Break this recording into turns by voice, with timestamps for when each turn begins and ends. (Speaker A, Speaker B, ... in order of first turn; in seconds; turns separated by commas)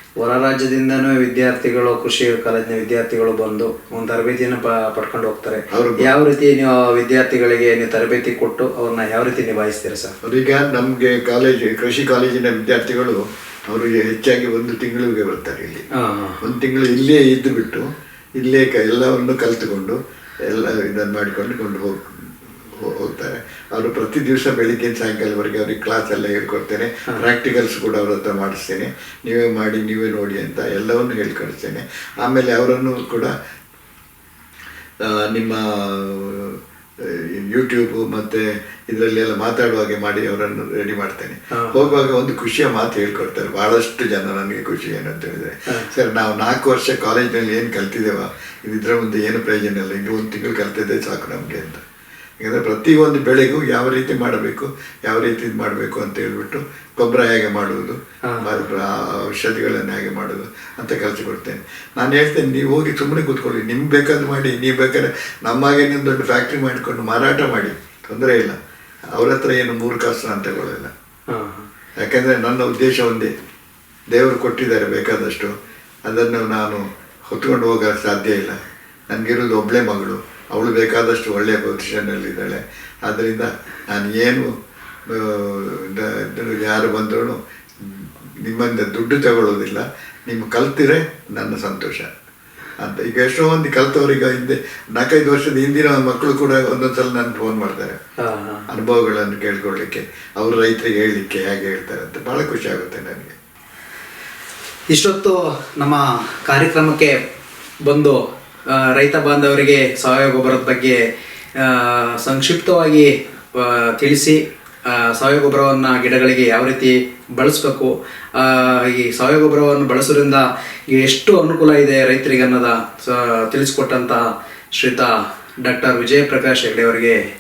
Speaker A: 0.2-10.2, Speaker B: 5.7-6.1, Speaker B: 10.2-15.9, Speaker A: 16.0-16.4, Speaker B: 16.4-22.1, Speaker B: 22.7-33.3, Speaker B: 35.0-51.8, Speaker A: 41.5-42.1, Speaker B: 52.4-68.6, Speaker A: 58.3-58.6, Speaker B: 69.2-70.9, Speaker A: 71.3-71.7, Speaker B: 72.0-73.3, Speaker B: 74.1-75.5, Speaker B: 76.0-78.6, Speaker B: 79.1-84.5, Speaker B: 85.1-92.1, Speaker B: 92.8-98.0, Speaker A: 98.2-98.7, Speaker B: 98.7-103.3, Speaker A: 104.9-107.2, Speaker A: 107.8-111.0, Speaker A: 111.6-127.2